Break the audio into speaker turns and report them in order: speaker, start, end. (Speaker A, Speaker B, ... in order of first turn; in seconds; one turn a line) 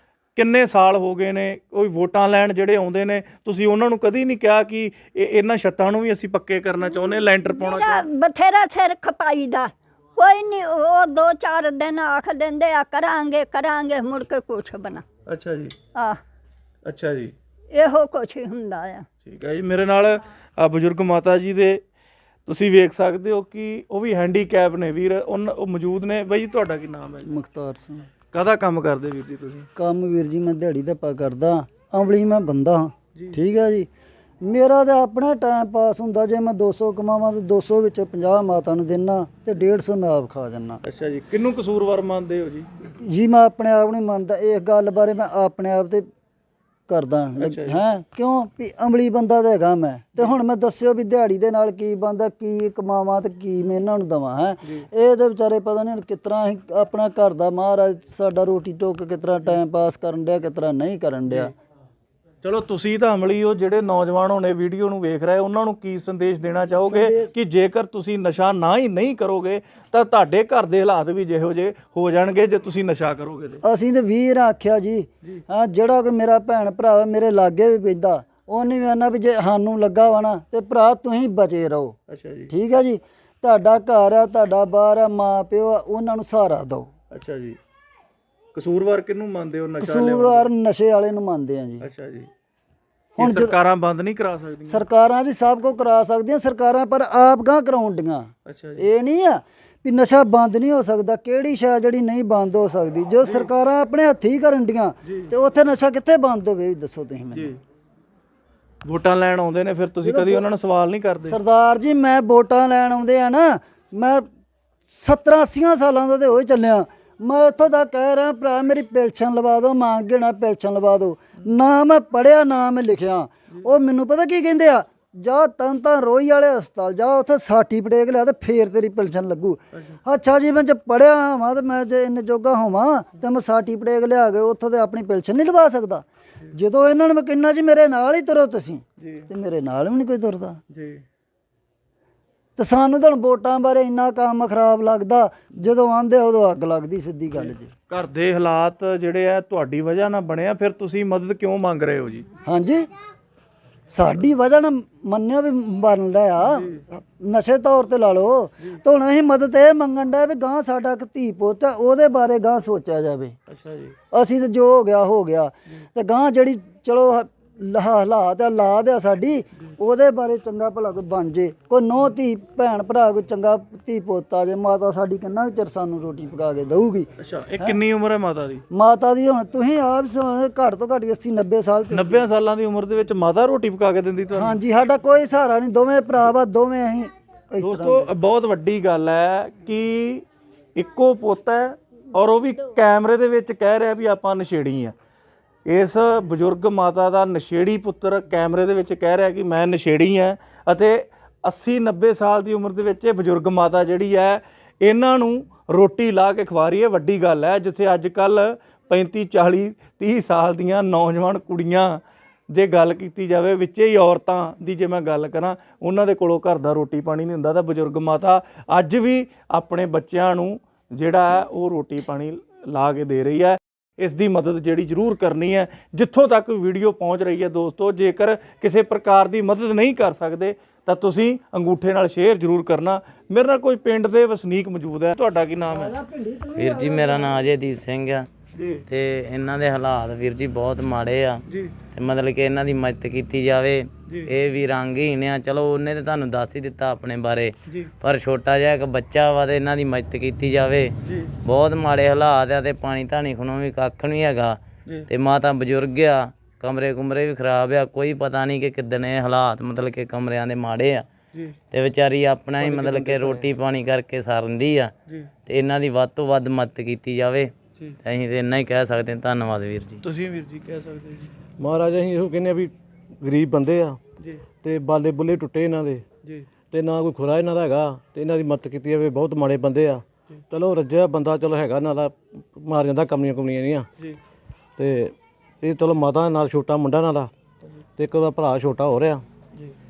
Speaker A: 0.4-8.1
Speaker B: 7.5-15.0
Speaker A: 15.3-15.8
Speaker A: 16.9-17.3
Speaker B: 17.7-19.1
Speaker A: 19.2-21.8
Speaker A: 22.5-27.3
Speaker C: 27.2-28.1
Speaker A: 28.3-29.7
Speaker C: 29.8-33.9
Speaker C: 34.4-40.8
Speaker A: 40.9-42.9
Speaker C: 43.0-46.1
Speaker C: 46.9-61.5
Speaker A: 47.4-47.8
Speaker A: 62.4-73.6
Speaker C: 66.8-67.3
Speaker C: 73.6-82.0
Speaker A: 82.1-82.5
Speaker C: 82.5-86.9
Speaker A: 87.1-87.6
Speaker A: 88.5-90.5
Speaker C: 89.8-91.9
Speaker A: 91.8-92.3
Speaker C: 93.2-93.5
Speaker A: 93.2-94.8
Speaker C: 94.7-107.5
Speaker A: 98.5-98.9
Speaker A: 103.2-103.5
Speaker A: 105.1-105.3
Speaker A: 107.3-107.6
Speaker A: 108.8-111.4
Speaker C: 110.0-110.5
Speaker C: 111.2-114.3
Speaker C: 114.9-140.6
Speaker A: 139.0-139.3
Speaker A: 140.7-141.0
Speaker C: 142.6-147.7
Speaker A: 147.4-152.3
Speaker C: 152.5-152.9
Speaker C: 153.9-163.4
Speaker A: 156.4-156.8
Speaker A: 163.5-164.0
Speaker C: 164.1-177.1
Speaker A: 177.2-178.6
Speaker C: 178.7-182.2
Speaker A: 181.9-184.6
Speaker C: 184.3-188.1
Speaker A: 187.6-194.9
Speaker A: 195.7-212.0
Speaker A: 212.5-235.9
Speaker C: 235.7-237.5
Speaker D: 236.6-238.3
Speaker A: 238.6-238.8
Speaker D: 238.9-241.4
Speaker A: 241.5-241.8
Speaker D: 241.9-250.9
Speaker A: 244.1-244.3
Speaker A: 251.1-251.3
Speaker D: 251.4-254.6
Speaker D: 255.1-261.1
Speaker D: 261.7-264.9
Speaker E: 262.6-263.5
Speaker D: 265.5-267.5
Speaker D: 268.1-270.0
Speaker A: 270.0-271.4
Speaker E: 271.6-274.0
Speaker E: 274.5-276.1
Speaker E: 276.6-283.9
Speaker E: 284.8-287.3
Speaker E: 288.0-289.2